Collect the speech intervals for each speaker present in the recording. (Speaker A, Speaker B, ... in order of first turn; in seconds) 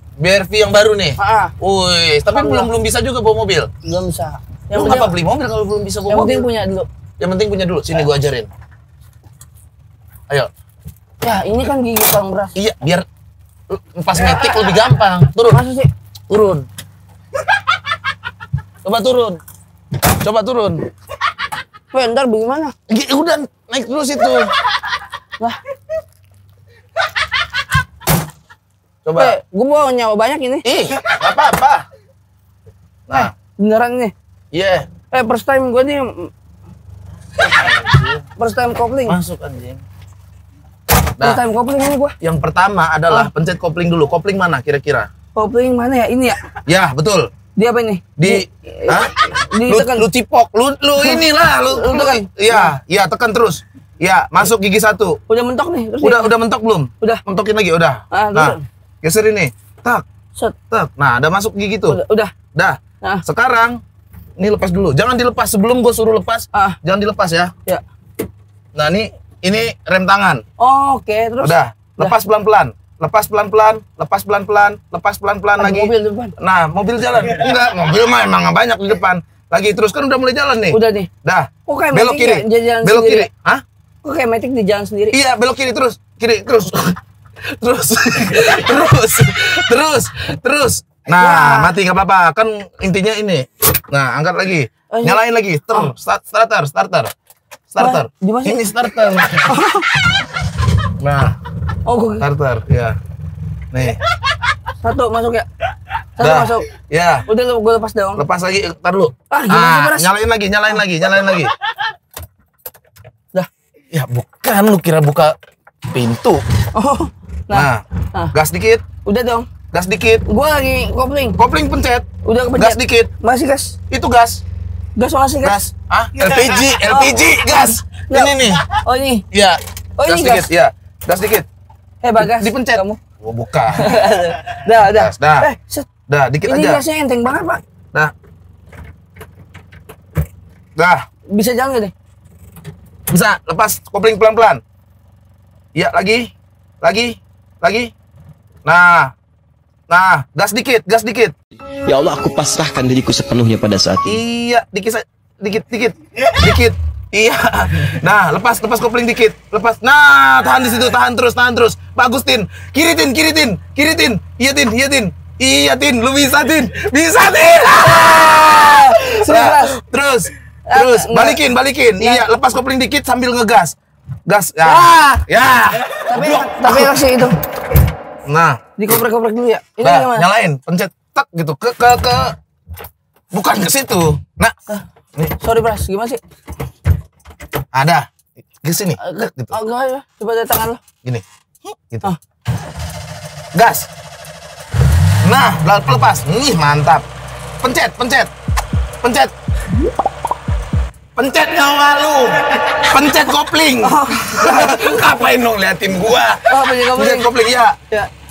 Speaker A: 0.2-3.7, 4.7-6.5, 7.2-8.5, 12.6-13.1, 13.7-15.6, 16.3-16.7, 18.8-19.4, 20.2-20.9, 22.9-24.5, 29.0-29.4, 30.6-31.9, 34.5-34.9, 37.4-38.2, 39.1-39.8, 42.2-45.1, 46.7-47.3, 48.2-55.2, 56.0-60.0, 60.7-62.0, 62.5-63.8, 64.4-67.5, 68.8-70.4, 71.4-83.6, 85.1-97.1, 97.7-99.6, 101.0-101.4, 102.2-103.0, 103.7-104.0, 106.2-107.3, 108.2-111.5, 113.9-115.4, 115.9-116.4, 117.5-118.8, 119.7-120.2, 121.4-123.1, 123.9-124.4, 125.4-128.7, 129.3-131.5, 132.2-134.1, 134.9-135.5, 136.1-136.8, 140.8-141.1, 143.1-144.6, 145.8-147.9, 148.7-149.1, 149.9-151.3, 154.1-173.8, 174.3-177.0, 178.3-178.7, 179.8-182.4, 183.3-184.6, 187.7-189.5, 193.5-193.9, 195.2-197.1, 197.6-198.3, 199.0-199.3, 201.2-207.8
Speaker B: 1.2-1.5, 2.3-2.7, 3.9-5.1, 6.1-6.9, 11.2-12.6, 15.5-15.9, 21.9-22.7, 29.2-30.7, 33.1-34.1, 35.1-36.3, 38.4-39.2, 41.2-42.2, 45.4-46.4, 47.6-50.1, 51.0-52.7, 55.3-56.3, 58.1-58.6, 61.9-62.3, 70.6-72.2, 75.6-76.3, 80.7-81.1, 81.7-83.3, 84.0-85.2, 91.2-91.7, 94.9-95.2, 97.8-98.6, 99.5-99.9, 101.9-102.3, 104.8-105.5, 106.2-106.7, 107.3-108.2, 109.3-110.1, 116.8-118.3, 119.0-119.5, 120.3-121.4, 122.2-123.8, 125.0-125.7, 126.8-129.2, 130.0-130.5, 132.0-133.0, 133.7-135.9, 136.4-137.6, 141.3-141.9, 167.8-169.8, 170.7-171.4, 172.0-172.2, 174.6-175.2, 176.1-177.4, 178.8-180.3, 185.4-186.2, 189.0-190.8, 203.8-205.0, 206.5-207.3
Speaker C: 151.9-154.2